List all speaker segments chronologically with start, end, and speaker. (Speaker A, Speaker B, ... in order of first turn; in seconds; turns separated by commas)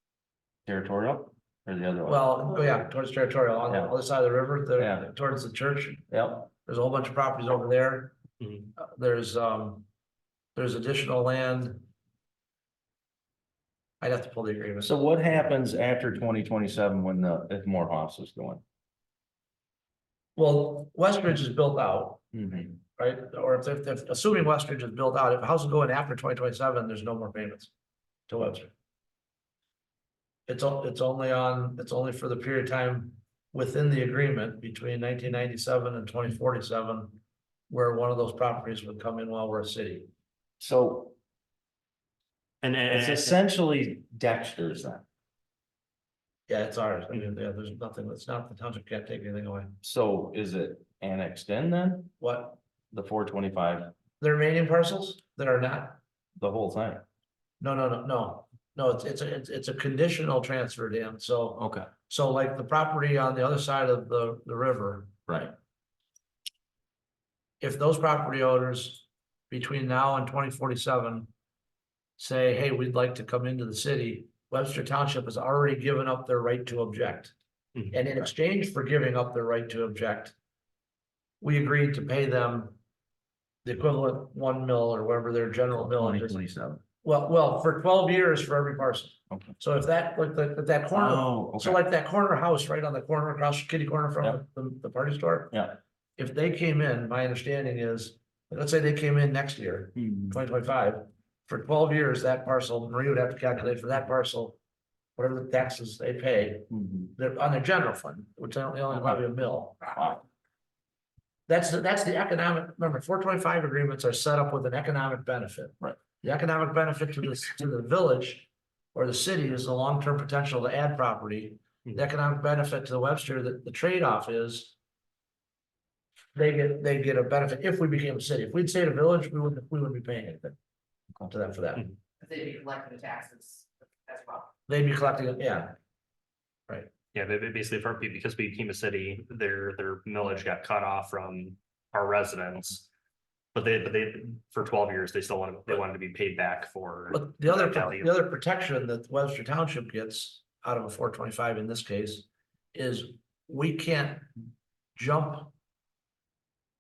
Speaker A: 0.7-2.2, Speaker B: 2.0-6.1, Speaker A: 3.7-3.9, Speaker A: 4.8-5.1, Speaker A: 6.1-6.5, Speaker B: 6.7-8.2, Speaker B: 8.8-9.9, Speaker B: 10.6-11.9, Speaker B: 14.0-14.9, Speaker A: 14.8-18.6, Speaker B: 20.4-27.7, Speaker A: 22.3-22.6, Speaker B: 28.3-28.7, Speaker B: 30.5-40.1, Speaker A: 40.6-41.2, Speaker C: 42.6-43.4, Speaker A: 42.9-45.0, Speaker B: 46.5-49.8, Speaker A: 49.8-52.1, Speaker B: 52.2-52.6, Speaker A: 52.9-53.9, Speaker B: 54.2-56.0, Speaker A: 56.4-57.0, Speaker B: 57.6-65.1, Speaker A: 61.6-61.9, Speaker A: 65.3-65.5, Speaker B: 67.6-71.3, Speaker B: 72.2-77.3, Speaker C: 77.8-78.0, Speaker B: 77.9-80.3, Speaker B: 81.4-82.8, Speaker B: 83.6-86.4, Speaker A: 85.7-86.8, Speaker B: 87.0-95.5, Speaker A: 89.3-89.6, Speaker A: 90.9-91.8, Speaker A: 95.5-95.8, Speaker B: 96.2-104.6, Speaker A: 100.0-100.4, Speaker B: 105.2-110.0, Speaker A: 106.7-107.1, Speaker A: 109.9-110.2, Speaker B: 111.5-124.7, Speaker B: 126.3-130.6, Speaker B: 131.3-131.9, Speaker D: 132.2-134.5, Speaker B: 134.7-135.8, Speaker C: 137.1-142.9, Speaker C: 143.6-148.1, Speaker B: 147.1-154.3, Speaker B: 155.0-155.5